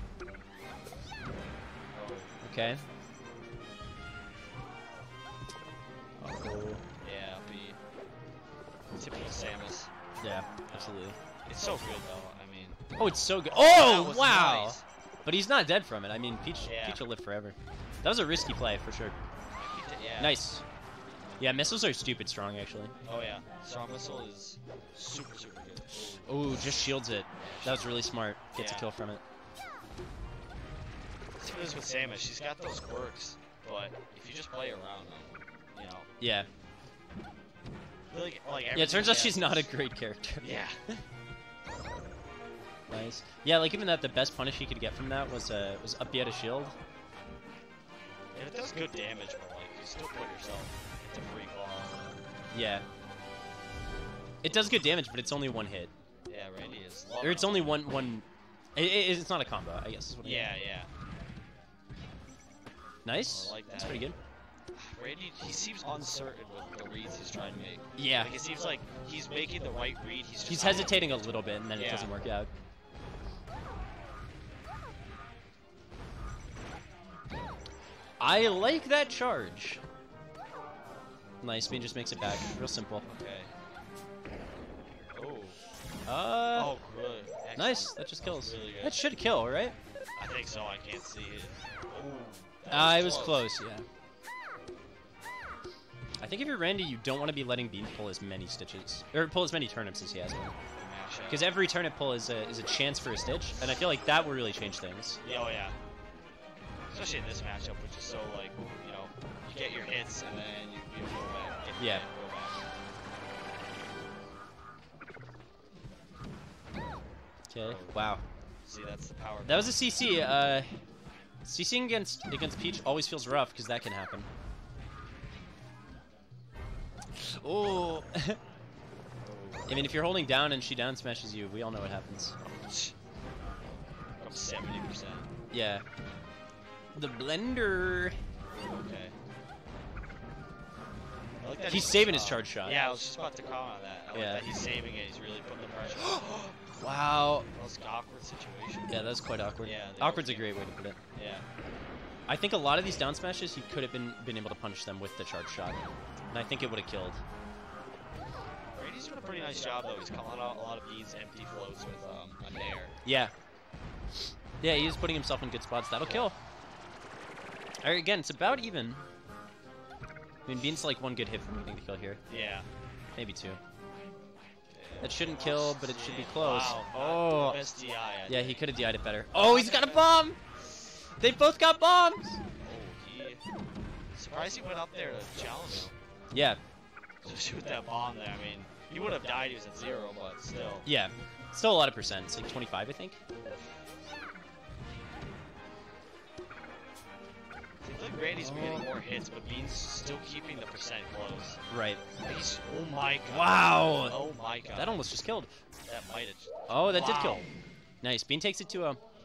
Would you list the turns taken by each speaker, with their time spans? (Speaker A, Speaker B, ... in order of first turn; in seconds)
Speaker A: 1.9-2.3, 7.0-7.8, 9.0-9.9, 10.7-12.8, 13.5-14.8, 16.6-17.0, 19.5-20.4, 23.1-26.7, 27.4-27.9, 28.5-28.9, 31.4-36.1, 38.1-39.7, 40.4-40.8, 48.3-52.2, 56.3-57.8, 60.2-60.9, 63.2-64.1, 64.7-72.1, 83.0-83.5, 85.1-85.6, 86.5-89.0, 90.2-93.5, 100.8-101.5, 105.2-105.7, 106.9-112.5, 117.6-118.1, 118.7-119.8, 129.2-129.8, 132.7-132.9, 134.2-135.3, 138.5-139.1, 141.4-146.5, 147.5-150.5, 151.1-151.4, 158.8-162.9, 172.3-172.7, 174.7-178.6, 179.3-180.1, 182.6-183.4, 184.1-185.9, 187.2-190.9, 197.8-201.6, 202.2-205.0, 205.9-207.5
Speaker B: 2.4-2.8, 6.2-6.8, 10.2-11.2, 13.0-19.1, 20.2-20.6, 21.4-22.9, 26.2-29.2, 36.2-36.5, 38.7-40.9, 42.9-46.7, 52.5-52.8, 54.4-55.9, 57.2-58.2, 58.8-60.5, 63.0-64.2, 68.0-68.3, 70.5-72.5, 78.2-79.8, 81.4-83.0, 86.1-86.7, 87.5-89.7, 92.7-93.8, 96.2-100.5, 101.3-105.2, 111.8-112.0, 117.5-118.2, 119.4-120.8, 121.4-124.3, 127.1-128.4, 129.7-132.3, 135.5-135.8, 136.9-138.1, 141.7-142.8, 144.1-144.4, 146.0-147.5, 148.9-151.0, 152.3-157.2, 163.0-163.3, 164.6-166.3, 167.8-169.0, 170.4-172.2, 173.2-173.6, 175.0-177.6, 178.3-180.4, 181.2-182.4, 186.3-186.6, 190.8-193.2, 198.4-198.9, 201.7-202.0, 203.3-204.2, 204.7-205.5, 206.7-207.4, 208.0-209.0